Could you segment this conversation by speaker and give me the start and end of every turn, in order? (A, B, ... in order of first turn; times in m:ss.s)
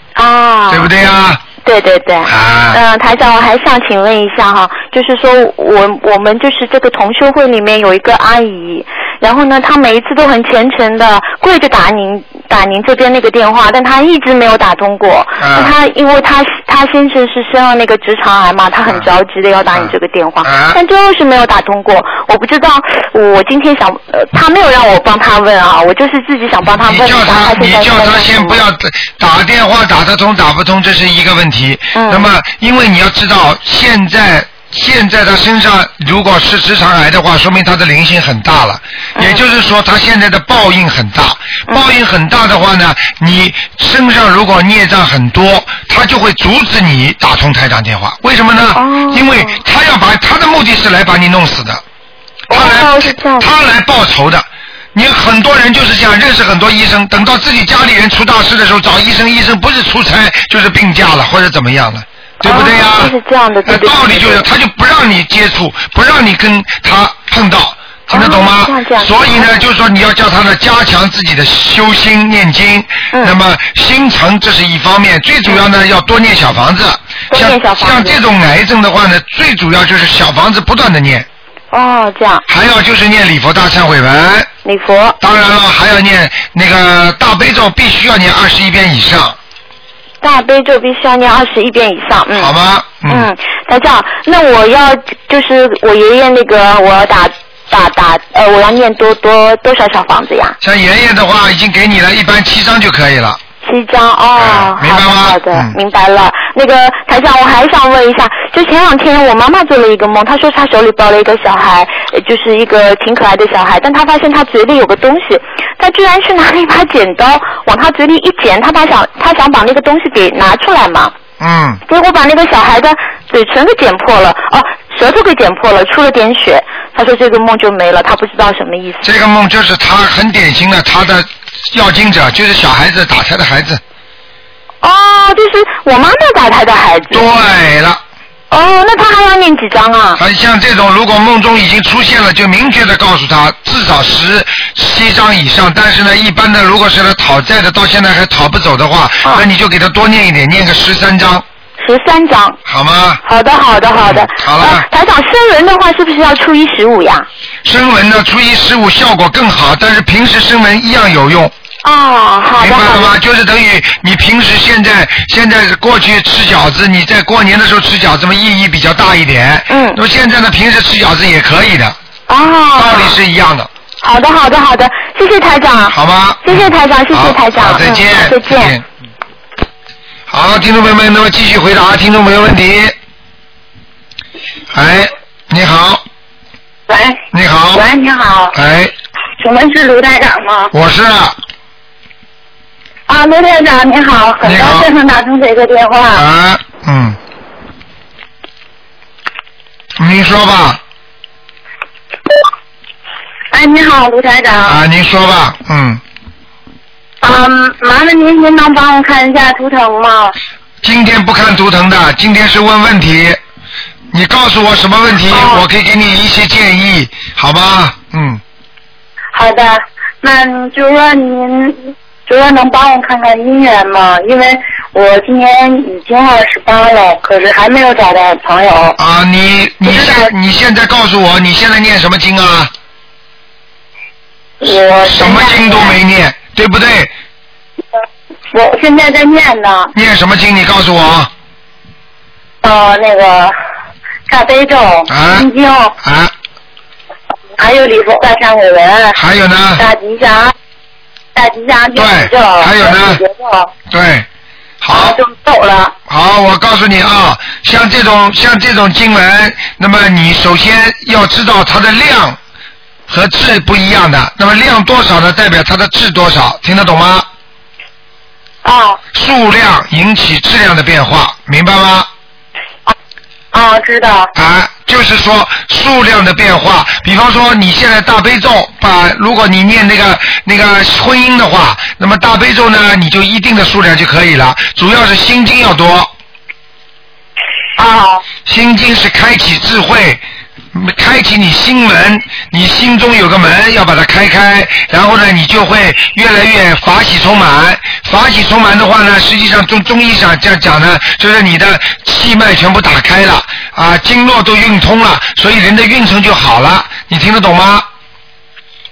0:00.2-0:00.9 A
0:00.7-0:01.4 B
0:01.6-0:28.6 A
0:02.3-0:02.8 B
0:15.4-0:15.7 B
0:19.8-0:20.8 B
0:26.8-0:51.8 B
0:31.9-0:32.3 A
0:48.8-0:49.6 A
0:52.5-0:53.5 A
0:52.5-1:03.1 B
1:02.4-1:04.5 A
1:03.7-1:21.3 B
1:08.1-1:09.6 A
1:17.3-1:18.2 A
1:21.7-1:22.4 A
1:22.5-1:24.5 B
1:24.6-1:25.2 A
1:25.2-1:29.4 B
1:30.2-1:32.5 A
1:32.4-1:33.3 B
1:33.1-1:40.6 A
1:40.6-1:43.4 B
1:43.6-2:01.1 A
1:44.4-1:45.8 B
2:01.4-2:01.8 B
2:01.9-2:09.1 A
2:09.0-2:13.8 B
2:14.8-2:17.3 A
2:17.1-2:18.0 B
2:18.5-2:20.2 A
2:20.2-2:31.4 B
2:31.8-2:32.6 A
2:32.7-2:33.2 B
2:33.2-2:37.3 A
2:34.0-2:34.9 B
2:37.6-2:41.5 B
2:41.8-2:43.2 A
2:42.6-2:52.0 B
2:49.7-2:50.0 A
2:52.3-2:53.2 A
2:52.8-2:53.7 B
2:54.0-2:58.8 A
2:55.9-2:58.9 B
3:00.3-3:03.0 B
3:04.7-3:06.0 B
3:06.9-3:07.2 C
3:07.3-3:07.9 B
3:07.8-3:08.5 C
3:08.5-3:08.9 B
3:09.4-3:10.7 C
3:10.7-3:11.4 B
3:13.1-3:16.2 C
3:14.4-3:14.9 B
3:16.1-3:17.2 B
3:20.0-3:20.8 B
3:23.6-3:24.8 C
3:24.6-3:26.0 B
3:27.2-3:30.3 C
3:30.8-3:33.4 B
3:34.1-3:38.4 B
3:39.4-3:41.8 C
3:42.3-3:49.0 C
3:49.0-3:52.7 B
3:50.0-3:50.2 C
3:54.7-3:55.9 C
3:55.0-3:57.1 B
3:58.6-3:59.8 C
3:59.9-4:01.3 B
4:02.6-4:03.5 C
4:04.3-4:05.9 C
4:05.1-4:05.5 B
4:06.0-4:06.3 B
4:07.6-4:09.1 C
4:09.1-4:09.8 B
4:09.8-4:10.5 C
4:11.4-4:13.7 C
4:12.0-4:13.2 B
4:13.9-4:14.3 B
4:14.8-4:15.2 B
4:15.0-4:15.9 C
4:16.1-4:22.4 B
4:23.1-4:27.3 B
4:29.1-4:32.1 B
4:33.6-4:34.2 C
4:34.4-4:46.1 B
4:48.4-4:50.2 B
4:50.7-5:07.9 B